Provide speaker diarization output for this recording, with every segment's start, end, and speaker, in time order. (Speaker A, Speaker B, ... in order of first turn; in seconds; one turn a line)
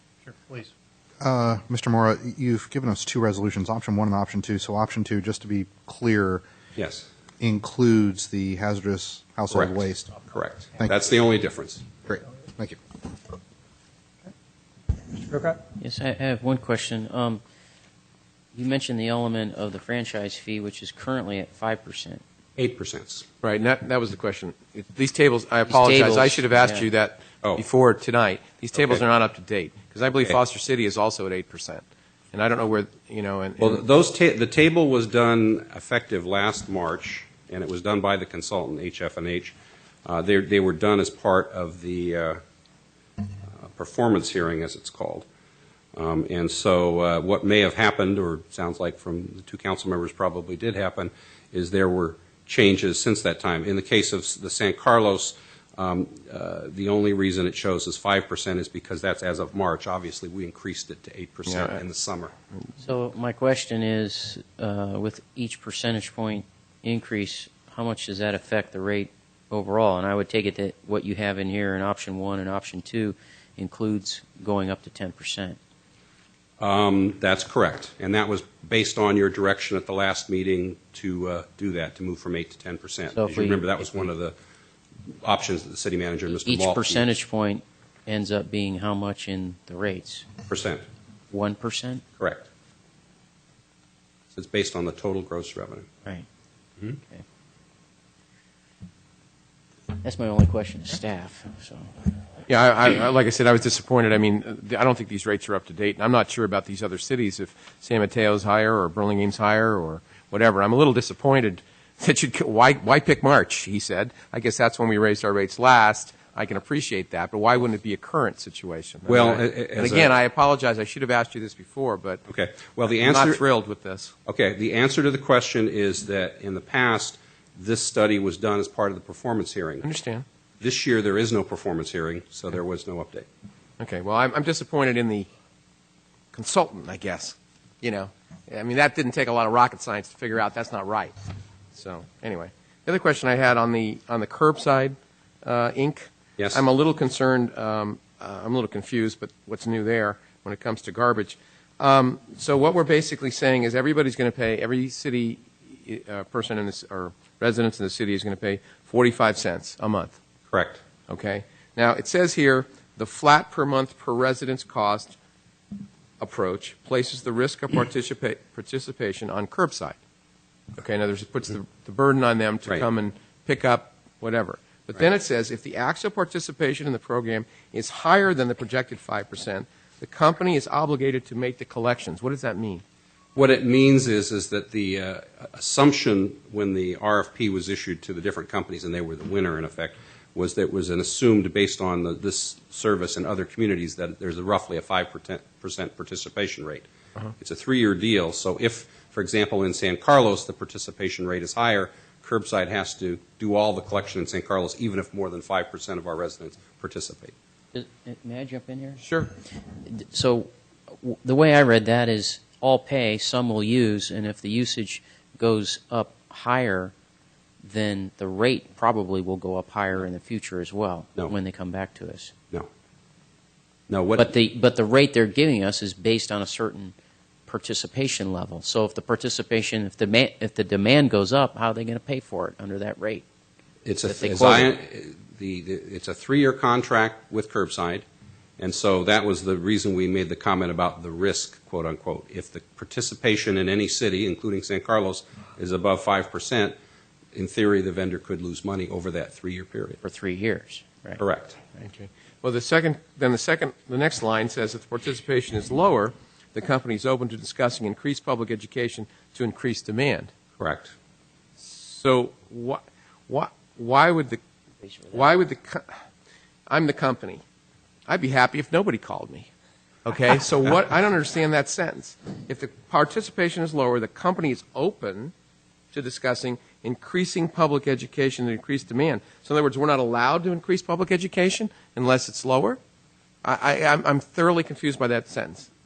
Speaker A: 1.2-6.4
Speaker B: 6.8-7.0
Speaker A: 7.4-10.1
Speaker B: 9.5-11.8
Speaker A: 12.1-12.8
Speaker C: 15.8-17.4
Speaker C: 18.5-22.2
Speaker B: 22.6-23.2
Speaker D: 23.4-33.8
Speaker C: 25.7-26.9
Speaker B: 33.6-39.5
Speaker B: 40.1-42.4
Speaker B: 43.6-45.3
Speaker B: 46.0-62.3
Speaker D: 61.5-61.8
Speaker C: 62.8-75.6
Speaker B: 76.6-84.3
Speaker C: 83.2-83.9
Speaker B: 85.2-87.1
Speaker C: 86.4-90.3
Speaker B: 90.5-90.9
Speaker C: 91.3-92.0
Speaker B: 92.2-92.5
Speaker B: 94.3-95.9
Speaker C: 100.0-102.1
Speaker D: 102.5-122.2
Speaker B: 119.1-120.1
Speaker B: 122.3-123.5
Speaker D: 123.0-124.1
Speaker B: 124.3-129.9
Speaker D: 129.8-130.2
Speaker B: 130.6-133.3
Speaker D: 133.8-135.3
Speaker D: 136.3-141.1
Speaker D: 141.8-160.2
Speaker B: 160.5-160.8
Speaker D: 161.1-165.2
Speaker D: 166.2-170.0
Speaker D: 170.8-182.8
Speaker B: 183.3-196.9
Speaker B: 197.4-207.3
Speaker C: 207.7-209.1
Speaker D: 209.0-209.3
Speaker C: 209.8-210.5
Speaker C: 211.0-216.9
Speaker C: 217.6-222.3
Speaker B: 223.9-224.3
Speaker C: 224.2-226.9
Speaker C: 227.5-233.3
Speaker B: 233.8-238.1
Speaker C: 234.0-234.7
Speaker B: 238.6-246.8
Speaker B: 247.3-250.0
Speaker C: 250.0-251.2
Speaker B: 251.2-251.6
Speaker D: 251.8-260.3
Speaker B: 260.6-260.9
Speaker D: 261.6-264.4
Speaker C: 264.9-265.2
Speaker D: 265.1-265.9
Speaker D: 266.7-267.4
Speaker D: 268.1-269.5
Speaker D: 270.1-275.3
Speaker D: 275.9-282.8
Speaker D: 283.4-285.7